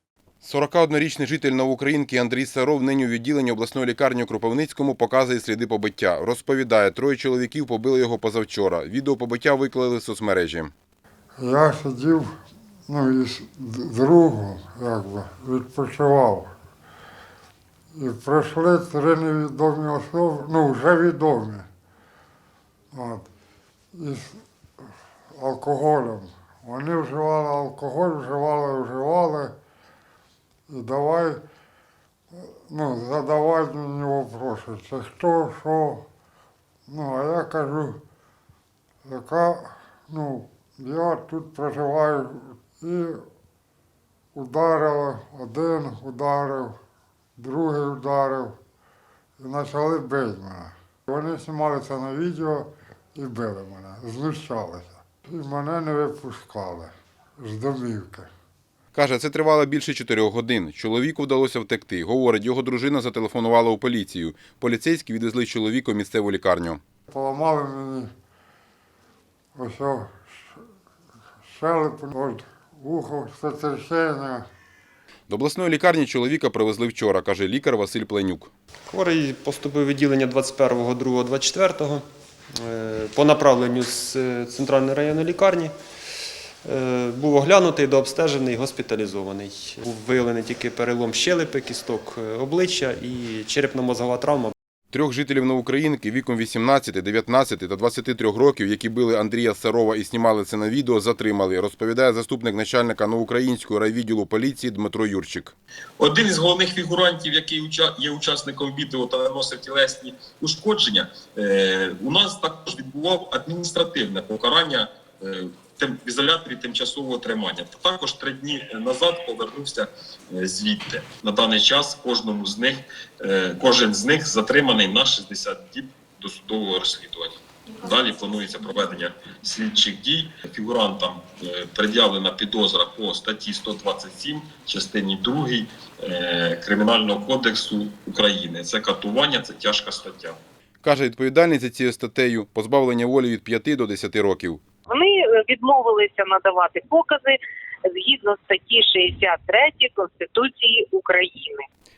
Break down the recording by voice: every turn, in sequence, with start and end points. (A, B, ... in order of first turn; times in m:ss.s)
0:00.4-0:10.7 A
0:11.4-0:12.3 B
0:12.9-0:16.5 B
0:17.9-0:21.7 B
0:22.9-0:23.2 B
0:23.9-0:24.4 B
0:25.3-0:29.5 B
0:30.7-0:31.4 B
0:32.3-0:36.0 B
0:36.9-0:38.0 B
0:39.0-0:43.2 B
0:44.3-0:46.8 B
0:47.4-0:48.6 B
0:49.4-0:58.3 B
0:58.9-1:06.8 A
1:07.1-1:08.1 B
1:09.6-1:10.6 B
1:11.5-1:14.4 B
1:15.3-1:18.5 A
1:18.9-1:22.0 C
1:22.6-1:25.7 C
1:26.6-1:34.5 C
1:34.9-1:45.5 A
1:46.0-2:20.4 D
2:20.8-2:24.6 A
2:24.9-2:31.7 E